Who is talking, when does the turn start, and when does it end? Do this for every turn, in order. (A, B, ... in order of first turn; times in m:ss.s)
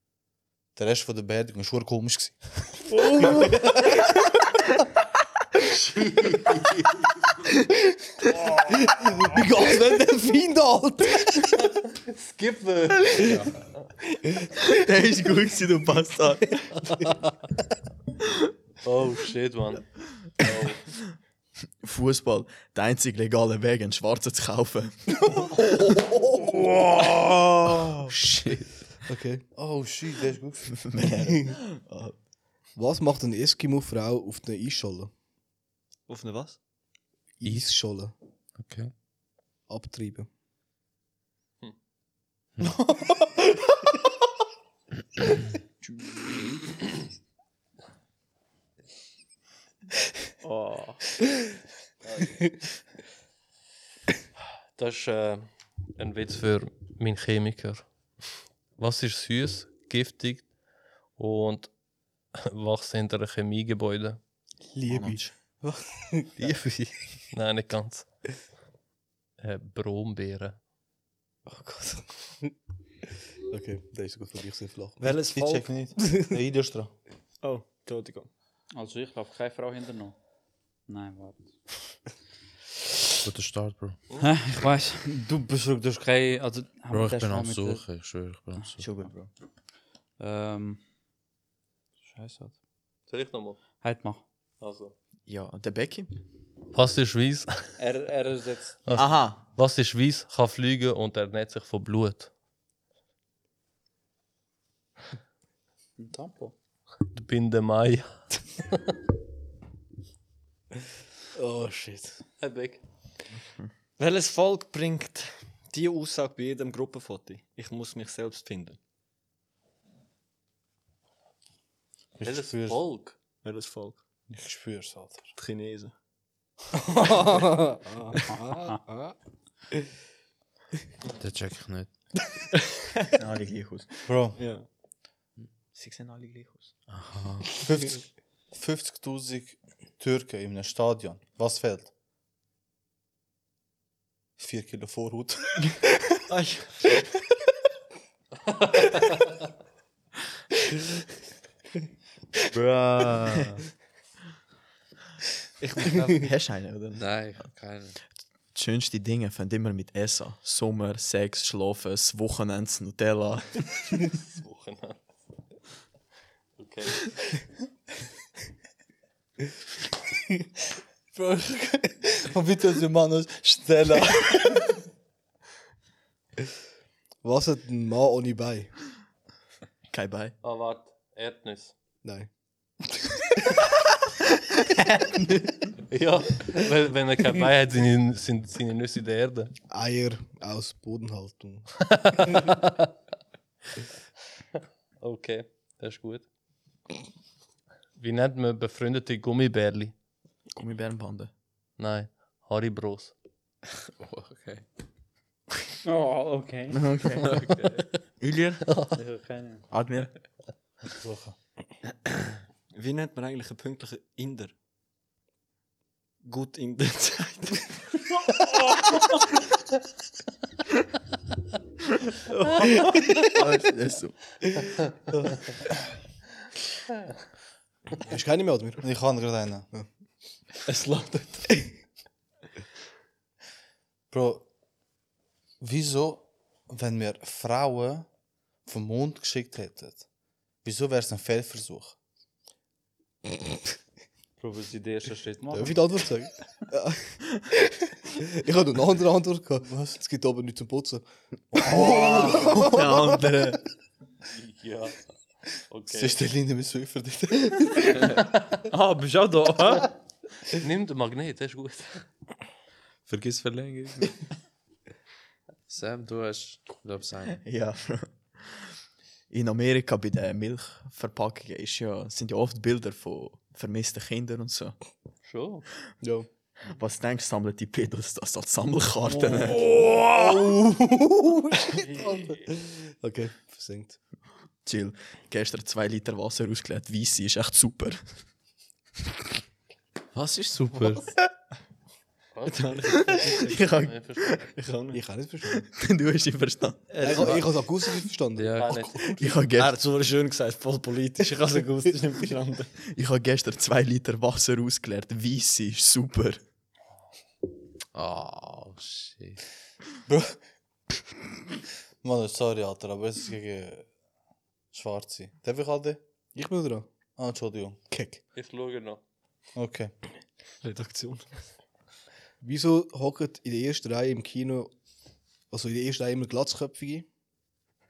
0:00.8-0:02.8 A
0:03.2-0:03.6 B
0:05.7-0:06.9 C
0:08.4-0:11.7 B
0:08.7-0:09.2 C
0:11.7-0:13.5 C
0:13.2-0:13.5 D
0:14.6-0:16.7 E
0:18.8-0:20.9 C
0:21.8-0:25.0 E
0:25.4-0:26.0 B
0:28.1-0:28.8 D
0:29.1-0:29.4 B
0:29.6-0:30.8 A
0:30.7-0:32.2 E
0:31.0-0:31.6 B
0:32.8-0:35.1 B
0:36.1-0:36.6 F
0:37.4-0:38.1 B
0:37.4-0:37.7 D
0:38.6-0:38.9 D
0:39.7-0:40.3 B
0:45.8-0:46.6 F
0:50.4-0:51.0 E
0:52.0-0:52.4 C
0:54.7-0:57.9 C
0:58.8-1:00.5 C
1:01.2-1:01.7 C
1:02.3-1:04.2 C
1:04.9-1:05.2 E
1:04.9-1:05.3 A
1:04.9-1:06.9 B
1:07.3-1:08.0 C
1:09.4-1:10.6 C
1:11.6-1:12.0 B
1:13.5-1:15.2 B
1:15.0-1:15.8 F
1:15.3-1:16.9 A
1:17.4-1:18.3 F
1:18.7-1:20.2 G
1:20.9-1:21.5 G
1:23.2-1:24.0 D
1:24.2-1:27.9 G
1:26.9-1:28.8 D
1:28.8-1:29.3 E
1:30.2-1:30.8 G
1:32.0-1:32.6 G
1:33.1-1:33.6 C
1:33.8-1:34.2 G
1:34.6-1:34.9 C
1:35.3-1:36.1 E
1:36.7-1:37.5 C
1:37.8-1:38.8 G
1:38.8-1:42.3 C
1:38.9-1:39.4 E
1:46.0-1:46.5 G
1:47.1-1:48.9 C
1:51.4-1:52.2 B
1:52.4-1:52.8 C
1:54.0-1:58.8 F
2:02.2-2:02.8 A
2:02.2-2:03.2 C
2:03.4-2:04.0 F
2:04.3-2:05.3 A
2:05.4-2:05.9 F
2:07.0-2:08.1 B
2:08.1-2:08.8 F
2:11.2-2:11.9 D
2:12.5-2:13.1 F
2:13.2-2:13.9 E
2:14.0-2:14.4 A
2:14.3-2:14.7 F
2:15.7-2:16.7 E
2:16.9-2:17.5 D
2:17.6-2:21.9 A
2:24.4-2:25.6 A
2:26.3-2:26.8 F
2:32.5-2:33.6 G
2:35.6-2:36.3 F
2:36.2-2:37.5 E
2:37.0-2:38.0 D
2:38.5-2:43.6 E
2:44.1-2:45.0 C
2:46.6-2:47.3 C
2:51.1-2:54.7 A
2:57.2-2:58.7 B
2:59.9-3:00.4 E
3:00.4-3:01.7 C
3:02.0-3:02.3 B
3:04.6-3:05.6 E
3:05.9-3:09.5 C
3:09.7-3:12.5 B
3:11.8-3:12.9 C
3:15.0-3:16.3 C
3:18.0-3:19.9 C
3:20.6-3:21.3 E
3:21.8-3:23.1 C
3:24.0-3:24.6 D
3:25.8-3:26.8 G
3:26.7-3:27.7 E
3:27.2-3:27.8 D
3:28.2-3:28.6 E
3:28.7-3:29.0 C
3:29.0-3:29.7 G
3:29.7-3:30.1 E
3:30.9-3:31.4 A
3:32.7-3:34.6 F
3:36.2-3:37.8 F
3:42.4-3:43.0 B
3:43.3-3:44.3 E
3:48.0-3:48.8 B
3:48.8-3:49.7 A
3:50.6-3:51.4 F
3:54.1-3:54.4 A
3:55.6-3:58.1 A
3:58.6-4:00.0 A
4:00.6-4:02.0 A
4:04.4-4:05.8 G
4:05.6-4:12.9 B
4:09.6-4:10.0 A
4:11.5-4:12.6 A
4:11.7-4:13.6 E
4:12.2-4:12.4 C
4:14.3-4:16.2 C
4:15.9-4:18.1 A
4:18.7-4:19.9 G
4:20.5-4:22.0 C
4:23.1-4:24.2 D
4:25.7-4:27.4 D
4:27.3-4:28.6 E
4:29.3-4:34.8 E
4:35.2-4:35.7 C
4:36.0-4:36.3 B
4:36.7-4:39.7 E
4:39.5-4:40.3 C
4:39.8-4:44.0 B
4:41.6-4:42.4 C
4:44.6-4:48.0 E
4:50.1-4:51.1 D
4:52.4-4:54.4 C
4:52.4-4:53.5 F
4:53.0-4:54.4 E
4:54.5-4:55.0 F
4:54.9-4:55.7 B
4:55.7-4:56.9 E
4:56.9-4:57.4 G
4:57.0-4:57.5 D
4:57.0-4:59.4 B
4:58.4-4:59.0 D
4:58.6-4:59.0 C
4:59.1-4:59.8 E
4:59.5-5:02.7 F
5:02.9-5:06.4 E
5:07.9-5:09.4 D
5:10.1-5:10.4 A
5:12.0-5:13.9 A
5:14.7-5:16.0 A
5:16.4-5:16.9 B
5:17.2-5:17.8 A
5:17.9-5:18.2 B
5:18.3-5:19.0 C
5:19.6-5:19.9 A
5:20.6-5:21.3 F
5:22.4-5:24.7 B
5:25.5-5:27.1 B